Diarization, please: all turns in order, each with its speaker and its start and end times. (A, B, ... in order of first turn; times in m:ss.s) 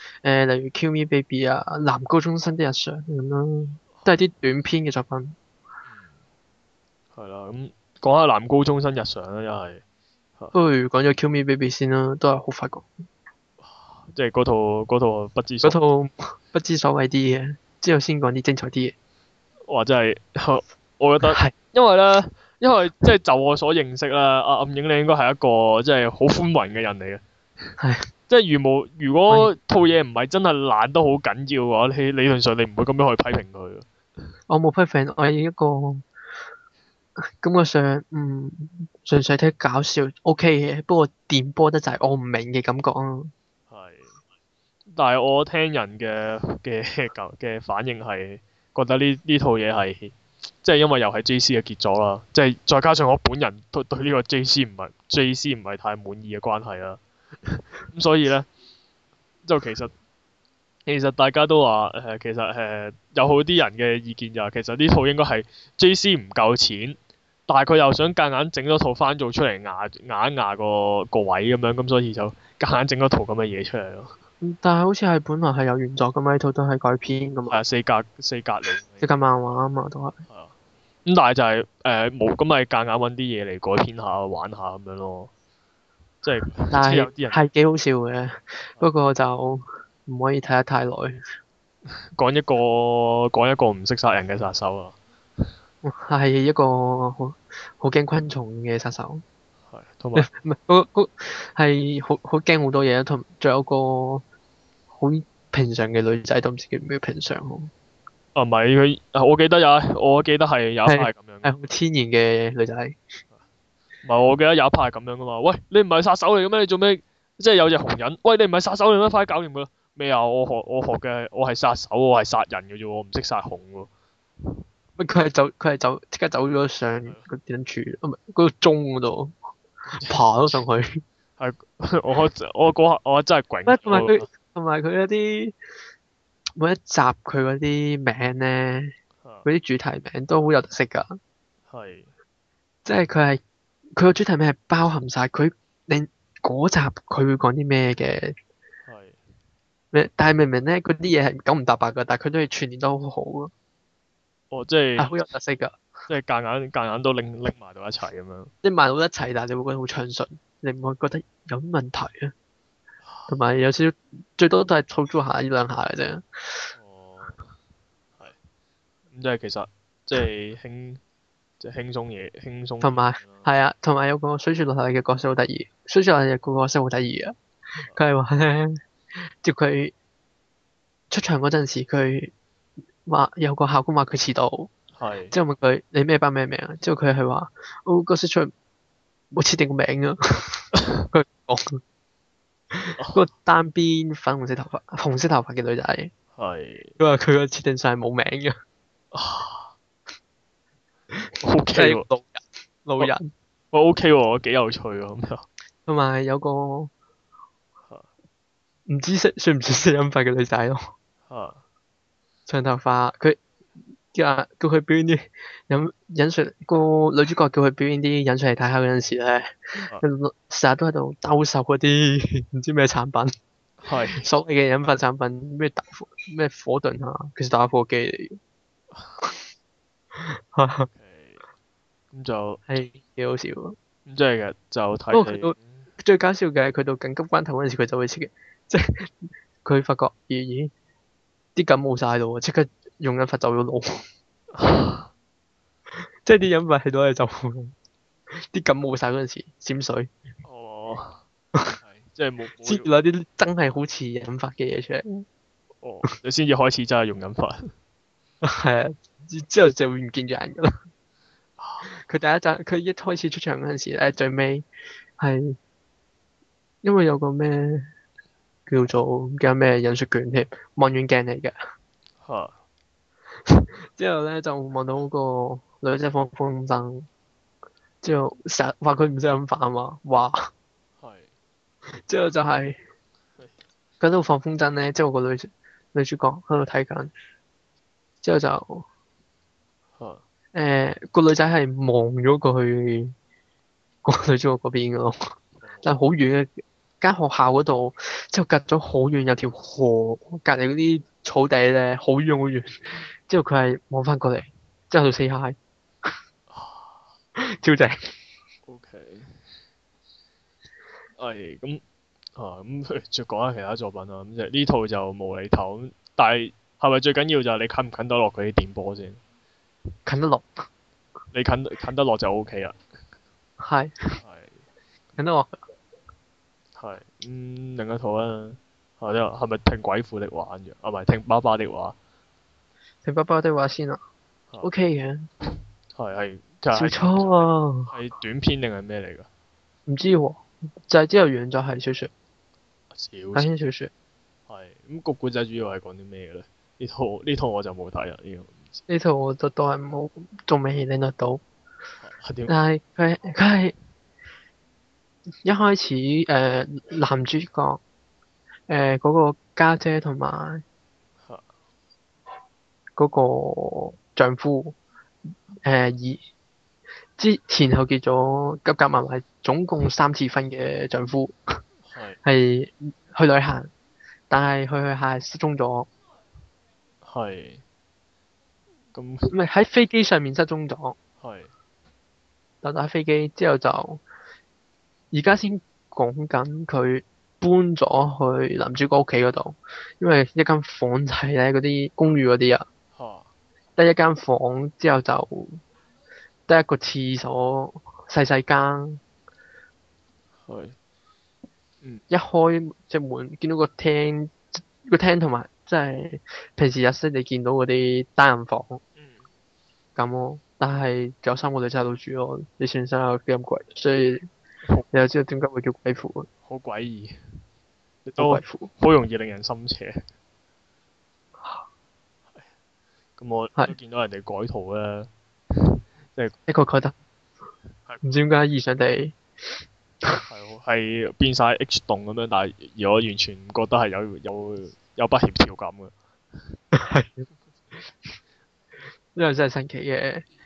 0:00.2-0:05.4 A
0:05.9-0:06.2 B
0:07.1-0:09.8 B
0:10.5-0:12.9 A
0:13.6-0:15.8 B
0:15.6-0:18.9 A
0:19.7-0:27.2 B
0:21.3-0:21.5 A
0:27.8-0:28.1 A
0:28.3-0:33.9 B
0:34.5-0:36.0 A
0:37.4-0:43.3 A
0:43.7-0:44.2 B
0:44.9-0:58.5 B
0:59.4-0:59.9 B
1:00.8-1:14.2 B
1:14.4-1:17.6 A
1:17.5-1:19.1 B
1:19.0-1:20.2 A
1:20.3-1:20.5 B
1:21.0-1:25.3 B
1:26.2-1:27.4 B
1:26.7-1:31.2 A
1:32.2-1:35.0 B
1:35.8-1:39.2 A
1:39.7-1:40.3 B
1:40.2-1:44.2 A
1:44.9-1:47.7 A
1:48.3-1:51.5 B
1:50.9-1:53.0 A
1:54.0-2:03.9 B
2:05.0-2:09.3 A
2:09.9-2:10.2 B
2:10.0-2:11.0 A
2:11.4-2:14.2 B
2:13.7-2:15.5 A
2:16.6-2:21.2 A
2:19.2-2:19.5 B
2:21.7-2:22.1 B
2:22.8-2:23.4 A
2:24.0-2:28.3 A
2:28.8-2:29.2 B
2:29.9-2:33.5 A
2:34.5-2:35.1 B
2:35.0-2:35.8 A
2:36.1-2:38.5 B
2:38.6-2:42.3 A
2:43.0-2:43.3 B
2:43.3-2:46.7 A
2:46.7-2:47.4 B
2:49.1-2:51.0 B
2:51.6-2:53.5 B
2:52.8-2:57.4 A
2:57.9-2:58.8 A
2:59.4-2:59.9 A
3:01.1-3:02.3 A
3:03.0-3:04.7 A
3:04.9-3:05.3 B
3:05.3-3:08.5 A
3:09.3-3:11.8 A
3:10.8-3:11.0 B
3:12.7-3:16.1 A
3:16.4-3:17.0 B
3:17.0-3:18.6 A
3:19.1-3:19.7 B
3:21.1-3:23.3 A
3:21.4-3:22.1 B
3:23.7-3:25.4 B
3:25.8-3:26.9 A
3:28.9-3:30.9 A
3:31.3-3:31.6 B
3:32.5-3:33.4 A
3:34.1-3:43.3 A
3:43.8-3:44.3 B
3:44.2-3:48.4 A
3:50.1-3:50.9 A
3:50.9-3:51.4 B
3:52.1-3:52.6 B
3:52.7-3:53.8 A
3:54.0-3:55.8 B
3:55.1-4:00.7 A
4:01.6-4:04.0 A
4:04.5-4:05.1 B
4:06.2-4:07.7 A
4:08.3-4:10.1 A
4:10.4-4:11.2 B
4:11.8-4:12.9 B
4:12.6-4:15.2 A
4:15.8-4:17.7 B
4:18.4-4:20.8 A
4:21.6-4:22.0 B
4:21.9-4:24.7 A
4:25.2-4:25.6 A
4:26.8-4:27.9 A
4:28.7-4:31.6 A
4:32.2-4:32.6 B
4:33.5-4:37.1 A
4:38.0-4:40.5 A
4:41.0-4:41.3 B
4:42.1-4:42.8 A
4:44.0-4:47.1 A
4:48.2-4:48.8 A
4:50.0-4:50.2 B
4:50.5-4:53.1 A
4:54.0-4:55.2 A
4:55.6-4:55.9 B
4:55.8-5:05.6 A
5:06.5-5:07.0 B
5:07.4-5:08.0 A
5:08.6-5:09.4 B
5:11.2-5:11.8 B
5:12.4-5:19.2 B
5:20.0-5:20.6 A
5:21.3-5:22.8 B
5:23.6-5:24.2 A
5:24.2-5:24.6 B
5:25.2-5:25.6 A
5:26.8-5:32.0 B
5:33.0-5:34.0 A
5:34.6-5:35.3 A
5:35.9-5:39.3 B
5:36.7-5:37.9 A
5:39.9-5:42.1 A
5:42.9-5:43.5 B
5:43.3-5:43.9 A
5:44.5-5:48.8 B
5:48.9-5:51.4 A
5:52.0-5:52.5 B
5:52.5-5:53.7 A
5:55.4-5:57.8 A
5:58.7-6:00.6 A
6:03.0-6:04.8 A
6:05.6-6:06.2 A
6:07.2-6:11.6 A
6:11.9-6:12.2 B
6:12.2-6:13.7 A
6:14.3-6:15.9 A
6:17.0-6:17.6 B
6:18.9-6:19.3 B
6:19.3-6:21.0 A
6:21.2-6:21.5 B
6:22.6-6:24.0 A
6:25.1-6:32.6 A
6:32.9-6:33.3 B
6:33.8-6:35.6 A
6:36.5-6:39.0 A
6:40.4-6:40.8 B
6:42.1-6:48.8 A
6:49.0-6:49.2 B
6:50.0-6:54.3 A
6:54.9-6:56.3 A
6:56.4-6:57.2 B
6:58.0-7:00.0 B
6:58.2-6:58.7 A
7:03.2-7:06.3 B
7:06.5-7:06.9 A
7:08.0-7:09.2 A
7:10.2-7:15.9 B
7:16.7-7:17.3 A
7:19.1-7:20.2 A